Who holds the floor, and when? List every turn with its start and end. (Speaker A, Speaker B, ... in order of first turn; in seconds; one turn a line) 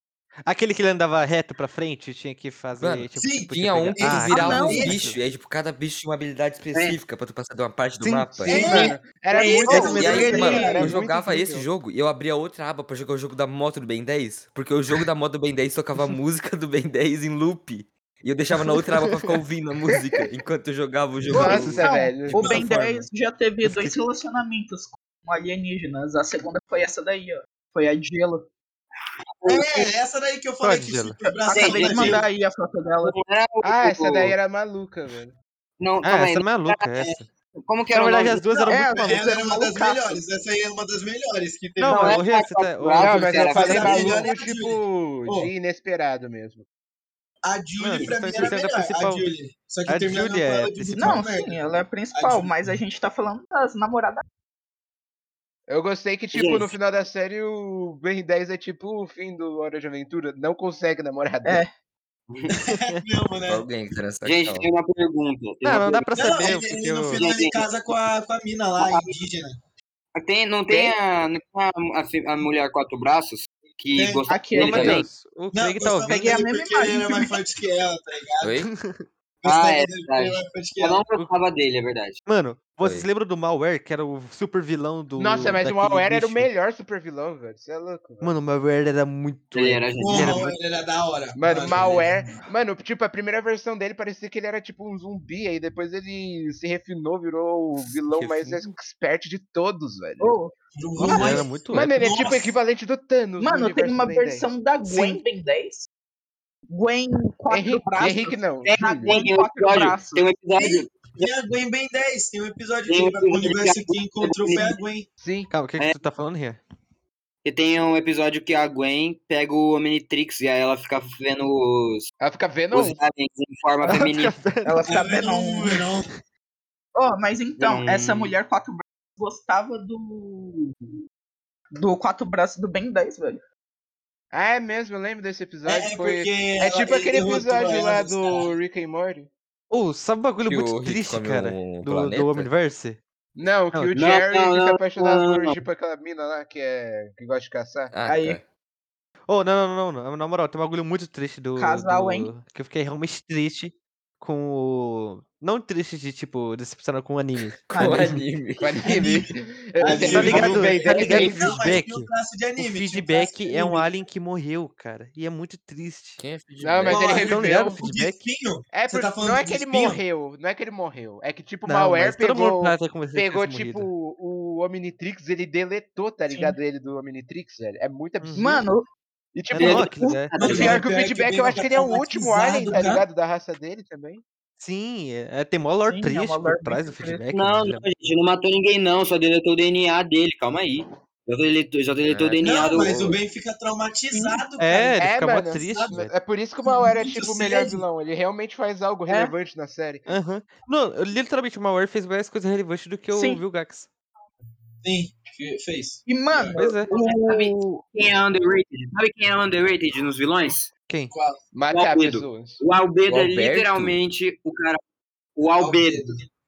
Speaker A: 0.5-5.2
Speaker B: 2.8-8.7
Speaker C: 3.1-5.1
Speaker D: 4.3-5.0
Speaker E: 6.7-7.0
Speaker A: 8.0-8.9
Speaker F: 8.4-11.7
Speaker C: 8.5-10.9
Speaker A: 9.7-10.5
Speaker B: 9.7-23.0
Speaker D: 10.4-10.9
Speaker A: 18.6-19.4
Speaker A: 21.3-21.9
Speaker F: 21.3-22.6
Speaker D: 21.3-28.5
Speaker A: 22.4-22.9
Speaker A: 23.6-24.0
Speaker C: 29.4-32.2
Speaker A: 30.6-31.2
Speaker D: 31.2-33.2
Speaker E: 31.5-32.2
Speaker E: 33.0-34.4
Speaker F: 33.6-35.4
Speaker E: 35.8-37.0
Speaker A: 36.0-37.3
Speaker E: 37.6-38.5
Speaker A: 37.9-39.2
Speaker D: 38.7-40.2
Speaker C: 38.9-42.2
Speaker A: 41.8-43.8
Speaker E: 41.8-44.2
Speaker F: 42.9-46.6
Speaker C: 43.5-45.5
Speaker C: 47.4-52.8
Speaker A: 47.8-49.3
Speaker A: 49.9-51.3
Speaker D: 50.9-54.2
Speaker F: 55.7-61.6
Speaker E: 56.3-56.7
Speaker D: 61.4-61.7
Speaker C: 62.5-63.6
Speaker B: 63.5-64.7
Speaker E: 64.2-66.5
Speaker A: 65.6-67.2
Speaker C: 66.2-69.6
Speaker E: 67.1-67.6
Speaker E: 70.2-75.0
Speaker F: 70.7-71.0
Speaker C: 73.9-74.3
Speaker D: 74.3-75.0
Speaker A: 74.5-76.4
Speaker C: 75.5-78.6
Speaker D: 76.0-77.4
Speaker B: 78.4-78.7
Speaker A: 78.6-79.0
Speaker C: 79.4-81.0
Speaker E: 79.5-82.2
Speaker A: 82.2-86.5
Speaker F: 85.2-88.3
Speaker A: 88.2-90.6
Speaker E: 89.5-90.5
Speaker C: 90.0-92.3
Speaker F: 91.4-100.3
Speaker A: 98.1-98.6
Speaker D: 100.2-100.5
Speaker C: 100.8-102.6
Speaker A: 101.0-102.0
Speaker F: 101.7-104.5
Speaker D: 103.4-105.9
Speaker A: 104.9-105.2
Speaker D: 106.7-110.3
Speaker F: 107.5-109.3
Speaker E: 108.6-111.3
Speaker C: 110.6-115.1
Speaker E: 112.9-114.8
Speaker F: 115.2-115.5
Speaker A: 115.5-116.6
Speaker E: 117.4-122.1
Speaker F: 122.2-123.0
Speaker E: 122.7-124.5
Speaker A: 123.9-124.8
Speaker D: 124.6-125.9
Speaker C: 124.9-126.1
Speaker D: 126.9-130.7
Speaker E: 127.6-128.4
Speaker D: 131.7-133.4
Speaker F: 134.3-139.3
Speaker C: 135.6-138.5
Speaker A: 139.7-143.0
Speaker B: 140.4-142.5
Speaker F: 143.4-147.9
Speaker E: 143.9-145.6
Speaker B: 147.9-148.4
Speaker D: 148.1-148.4
Speaker A: 149.3-158.0
Speaker D: 151.6-152.3
Speaker B: 157.6-159.2
Speaker D: 157.7-158.2
Speaker F: 158.6-161.7
Speaker C: 159.8-163.9
Speaker A: 159.9-166.2
Speaker B: 160.1-160.5
Speaker B: 166.2-167.3
Speaker F: 166.6-167.8
Speaker C: 166.8-170.0
Speaker A: 166.9-168.2
Speaker F: 168.7-178.6
Speaker A: 171.7-173.9
Speaker D: 176.3-176.6
Speaker A: 178.2-178.5
Speaker D: 178.3-178.9
Speaker F: 179.3-184.2
Speaker A: 179.5-180.3
Speaker E: 179.6-180.8
Speaker C: 180.3-183.0
Speaker A: 184.6-187.8
Speaker D: 185.9-187.2
Speaker E: 187.3-193.2
Speaker B: 192.0-193.1
Speaker C: 192.4-196.0
Speaker D: 194.1-194.4
Speaker A: 194.6-196.1
Speaker F: 195.0-200.1
Speaker C: 196.9-197.8
Speaker A: 200.1-203.9
Speaker D: 203.1-203.4
Speaker C: 204.8-206.6
Speaker D: 206.1-207.8
Speaker A: 206.6-206.9
Speaker E: 206.9-210.7
Speaker C: 211.1-211.4
Speaker F: 211.5-212.6
Speaker E: 211.7-214.8
Speaker B: 213.1-214.0
Speaker E: 215.3-216.2
Speaker C: 215.6-216.3